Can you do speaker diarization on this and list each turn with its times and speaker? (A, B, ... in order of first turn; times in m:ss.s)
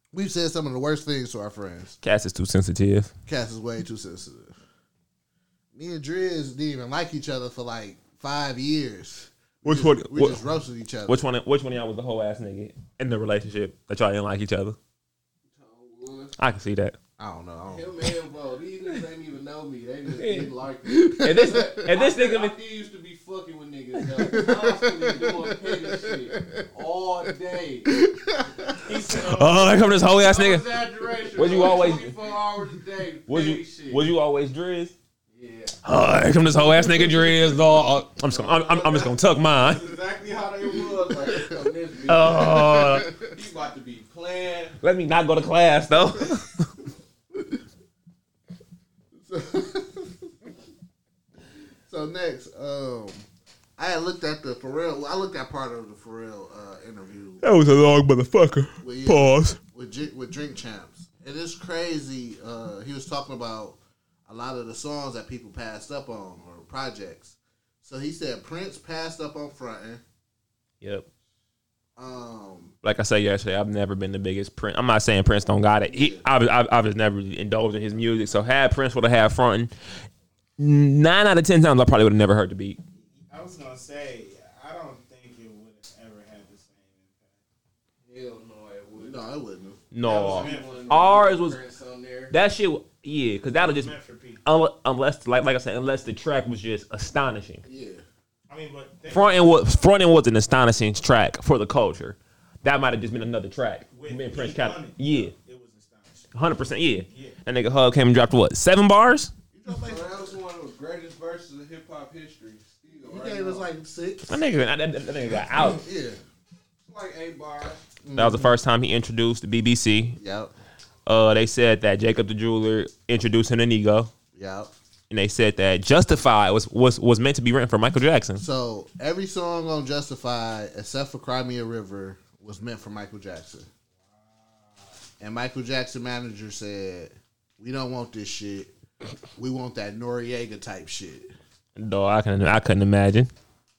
0:00.1-0:02.0 A
0:02.0-0:03.1 B
0:03.3-0:04.6 A
0:05.7-0:11.2 A
0:09.6-0:10.4 B
0:11.1-0:14.8 B
0:15.5-0:16.3 C
0:16.4-0:17.0 B
0:17.2-0:17.9 A
0:17.7-0:28.0 C
0:20.2-0:20.5 B
0:20.8-0:21.9 A
0:21.2-0:22.6 B
0:24.2-0:26.7 A
0:27.9-0:29.1 A
0:28.8-0:30.0 D
0:29.2-0:32.2 B
0:30.1-0:34.1 C
0:33.3-0:34.9 B
0:35.3-0:35.8 C
0:35.8-0:39.9 B
0:38.3-0:44.8 C
0:40.7-0:41.7 A
0:42.1-0:43.1 B
0:42.2-0:43.4 A
0:44.8-0:46.7 B
0:47.3-0:47.6 A
0:49.1-0:50.3 A
0:51.9-0:57.5 A
0:57.4-0:59.6 B
0:58.8-1:10.0 A
1:12.0-1:12.8 A
1:12.8-1:19.7 B
1:15.9-1:16.3 A
1:20.6-1:22.8 B
1:23.0-1:27.4 D
1:28.0-1:29.2 C
1:29.0-1:29.8 A
1:29.9-1:31.6 B
1:30.0-1:32.4 C
1:30.0-1:31.1 D
1:32.3-1:37.6 B
1:33.6-1:34.4 D
1:37.6-1:38.0 A
1:38.5-1:40.0 D
1:39.1-1:45.3 B
1:43.9-1:46.4 D
1:46.4-1:49.3 B
1:47.1-1:47.4 D
1:49.5-1:50.3 A
1:49.7-1:53.7 C
1:53.0-1:54.4 A
1:54.3-1:55.8 B
1:55.5-1:56.2 A
1:56.8-1:57.8 C
1:58.0-1:58.6 A
1:58.2-2:00.2 B
2:00.2-2:00.5 A
2:01.1-2:04.1 B
2:04.4-2:04.7 A
2:05.1-2:08.4 B
2:08.4-2:13.7 A
2:14.0-2:15.0 D
2:15.2-2:18.8 A
2:19.4-2:21.3 A
2:21.8-2:23.3 B